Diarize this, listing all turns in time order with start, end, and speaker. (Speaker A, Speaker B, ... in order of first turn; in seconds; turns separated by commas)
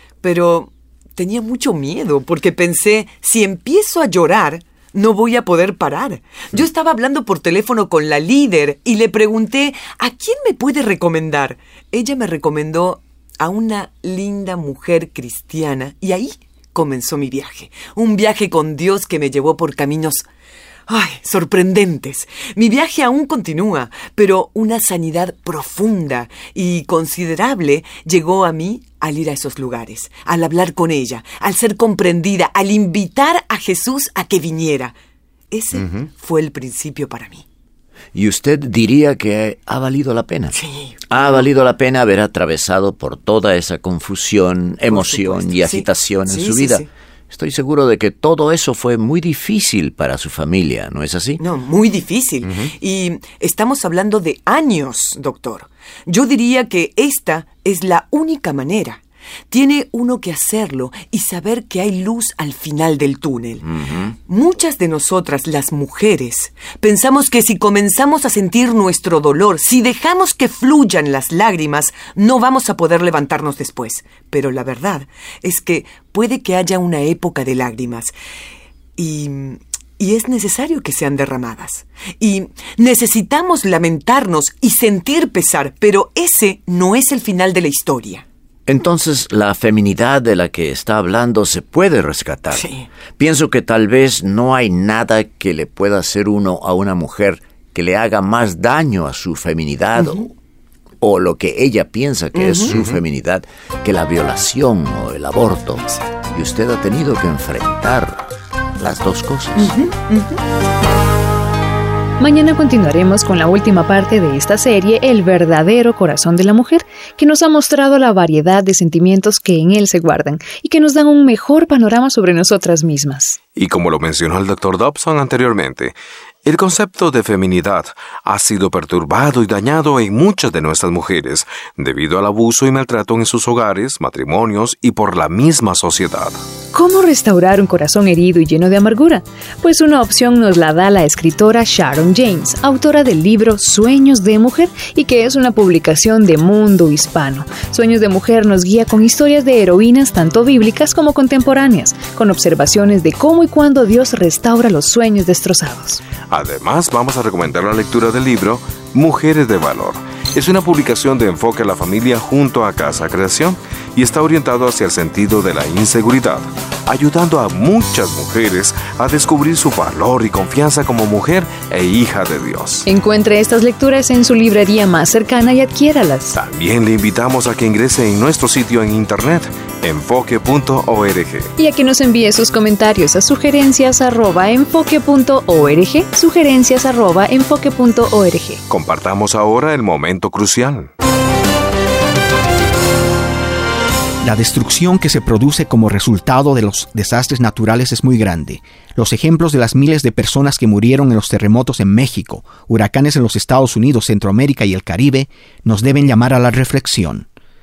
Speaker A: 0.2-20.3, Speaker A: 20.9-34.9, Speaker A: 35.5-37.4, Speaker B: 38.1-40.5, Speaker A: 40.5-41.4, Speaker B: 41.1-51.4, Speaker A: 44.9-46.9, Speaker A: 51.4-63.7, Speaker B: 63.6-64.1, Speaker A: 64.3-78.1, Speaker A: 79.0-88.2, Speaker B: 88.7-100.3, Speaker A: 92.5-92.9, Speaker A: 100.0-100.3, Speaker B: 101.0-108.3, Speaker A: 102.3-102.9, Speaker B: 108.8-109.7, Speaker A: 109.5-110.4, Speaker C: 112.2-123.4, Speaker D: 123.5-136.4, Speaker C: 136.7-156.0, Speaker D: 156.3-172.8, Speaker C: 172.9-176.3, Speaker D: 176.3-181.5, Speaker C: 181.6-188.6, Speaker D: 188.7-190.9, Speaker E: 194.2-207.3